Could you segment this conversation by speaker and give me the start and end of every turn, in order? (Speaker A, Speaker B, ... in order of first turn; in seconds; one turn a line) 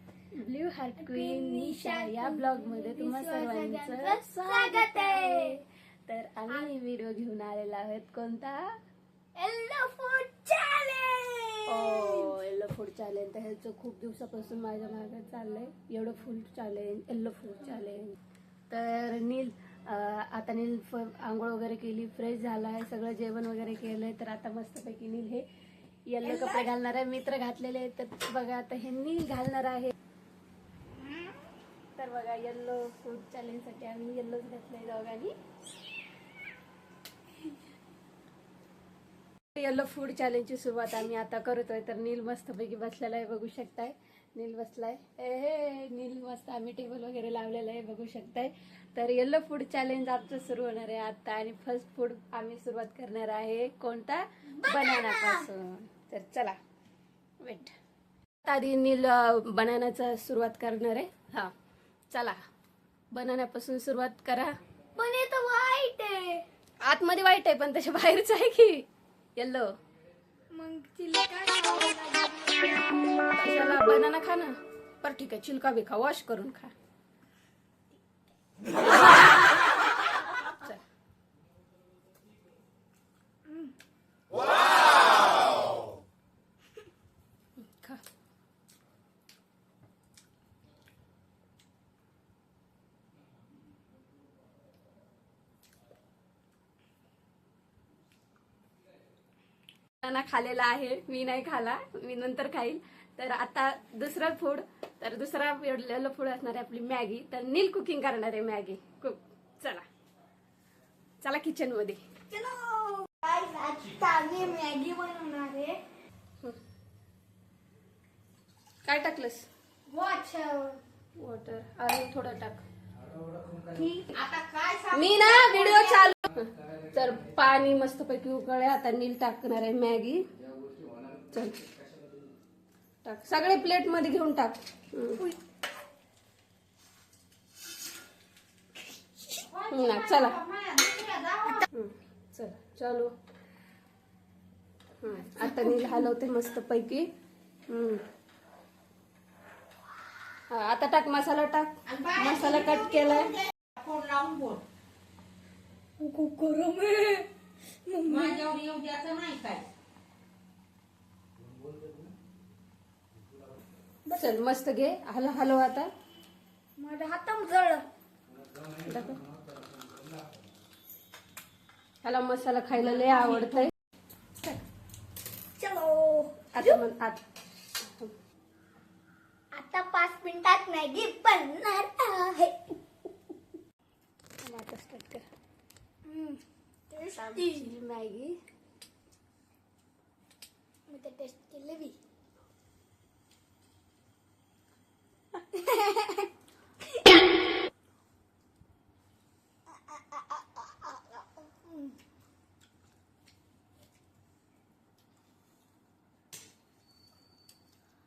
Speaker A: 0.3-8.6
Speaker B: 1.0-5.6
Speaker B: 9.4-12.4
Speaker A: 11.7-18.2
Speaker A: 18.7-25.4
Speaker A: 26.1-29.9
Speaker B: 26.2-26.7
Speaker B: 31.0-31.4
Speaker A: 32.0-35.3
Speaker A: 39.5-56.5
Speaker B: 54.5-55.5
Speaker A: 57.4-57.7
Speaker A: 58.4-61.5
Speaker A: 62.1-62.4
Speaker A: 63.1-64.5
Speaker B: 65.0-66.4
Speaker A: 66.8-68.8
Speaker A: 69.4-69.7
Speaker B: 70.5-73.3
Speaker A: 73.3-76.7
Speaker B: 83.5-83.7
Speaker B: 85.0-85.3
Speaker A: 87.6-88.0
Speaker A: 100.0-109.8
Speaker A: 111.2-112.0
Speaker B: 112.3-115.8
Speaker A: 118.8-119.5
Speaker B: 119.9-120.8
Speaker A: 121.2-122.6
Speaker B: 123.7-124.2
Speaker C: 124.2-125.8
Speaker A: 124.9-130.3
Speaker A: 131.2-131.7
Speaker A: 133.0-135.2
Speaker C: 139.5-141.6
Speaker A: 139.7-140.4
Speaker A: 141.7-143.1
Speaker A: 145.0-147.1
Speaker B: 145.4-145.8
Speaker A: 147.7-148.0
Speaker A: 150.5-153.4
Speaker C: 153.8-154.6
Speaker B: 156.0-157.3
Speaker B: 157.8-158.6
Speaker C: 158.1-159.7
Speaker B: 164.1-164.4
Speaker A: 164.1-165.9
Speaker B: 166.8-167.8
Speaker A: 168.8-169.2
Speaker A: 172.0-173.7
Speaker B: 175.6-176.8
Speaker A: 176.5-177.2
Speaker A: 177.8-178.1
Speaker B: 179.5-182.8
Speaker A: 184.4-185.2
Speaker B: 186.1-187.7
Speaker A: 187.1-188.3
Speaker B: 190.9-191.9
Speaker B: 195.5-196.3
Speaker B: 199.7-201.9